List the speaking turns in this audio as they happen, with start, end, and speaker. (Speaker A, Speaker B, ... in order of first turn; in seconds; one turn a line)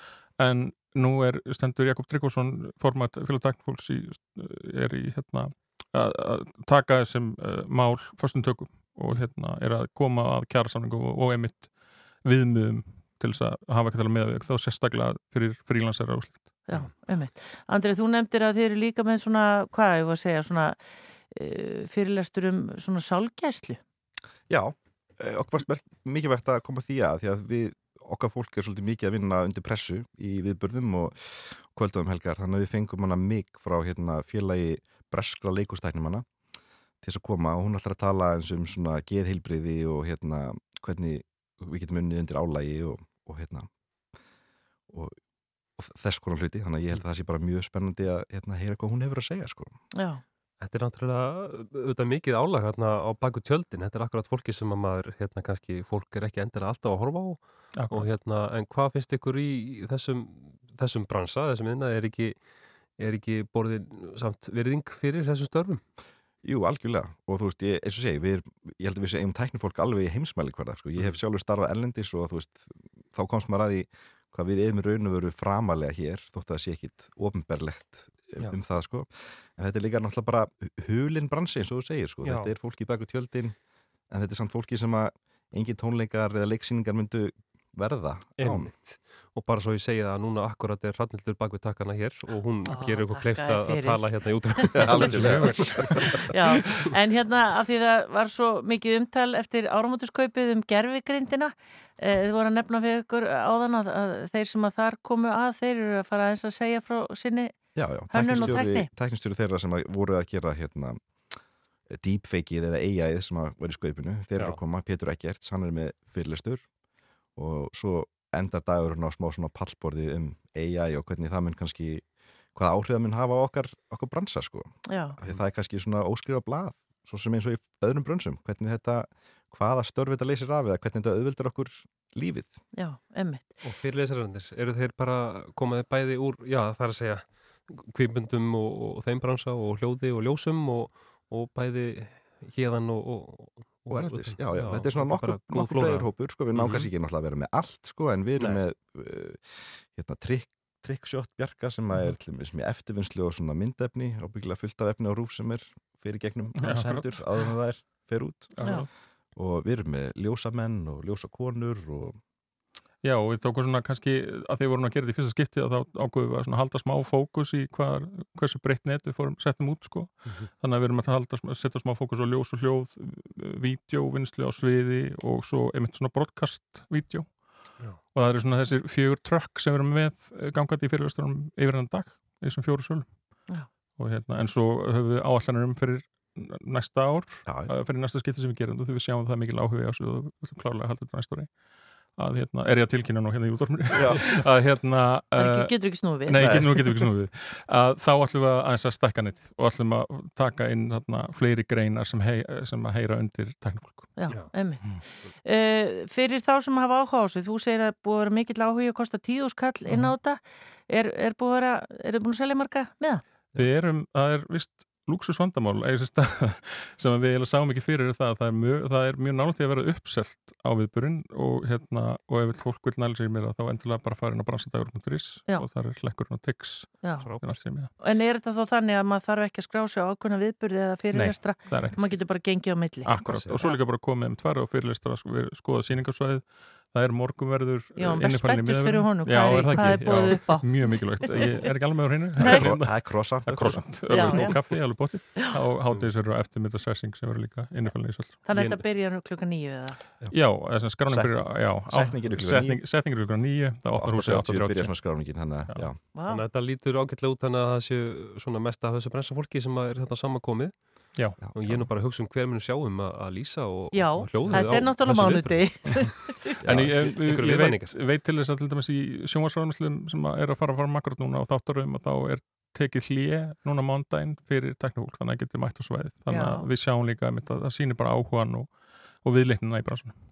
Speaker A: 0.4-16.6
Speaker B: 16.7-20.8
Speaker B: 21.3-23.8
Speaker C: 24.5-36.3
Speaker C: 37.0-43.7
Speaker C: 44.9-45.2
Speaker C: 45.8-49.8
Speaker B: 49.9-50.2
Speaker D: 50.6-65.8
Speaker A: 57.7-58.1
Speaker C: 66.4-83.5
Speaker D: 82.2-82.5
Speaker C: 84.1-88.7
Speaker D: 88.4-96.2
Speaker B: 92.7-95.4
Speaker C: 94.8-96.2
Speaker B: 96.3-107.5
Speaker C: 107.8-111.0
Speaker B: 108.1-108.9
Speaker C: 111.9-116.7
Speaker D: 114.4-114.6
Speaker C: 117.4-132.6
Speaker B: 124.9-125.2
Speaker B: 132.7-133.6
Speaker D: 133.6-146.9
Speaker C: 143.9-162.2
Speaker D: 148.4-148.6
Speaker A: 156.6-157.2
Speaker A: 158.6-158.9
Speaker A: 163.0-191.5
Speaker C: 187.4-187.7
Speaker A: 192.1-204.2
Speaker C: 193.9-194.4
Speaker B: 195.4-196.6
Speaker C: 196.4-197.1
Speaker B: 204.2-213.2
Speaker A: 213.5-227.9
Speaker B: 227.0-227.3
Speaker D: 227.2-227.5
Speaker B: 228.0-233.8
Speaker A: 231.1-232.3
Speaker A: 233.0-242.9
Speaker D: 233.2-233.6
Speaker B: 238.0-241.7
Speaker C: 242.4-244.6
Speaker B: 242.4-242.7
Speaker A: 243.4-248.4
Speaker B: 244.1-245.5
Speaker B: 248.4-250.0
Speaker D: 248.5-248.8
Speaker C: 250.2-253.0
Speaker A: 250.3-255.0
Speaker C: 253.9-256.1
Speaker B: 256.1-256.4
Speaker D: 256.3-266.1
Speaker C: 261.4-261.9
Speaker B: 263.9-266.6
Speaker A: 264.5-264.9
Speaker C: 266.6-267.1
Speaker D: 266.6-267.9
Speaker A: 266.7-280.2
Speaker B: 276.3-276.6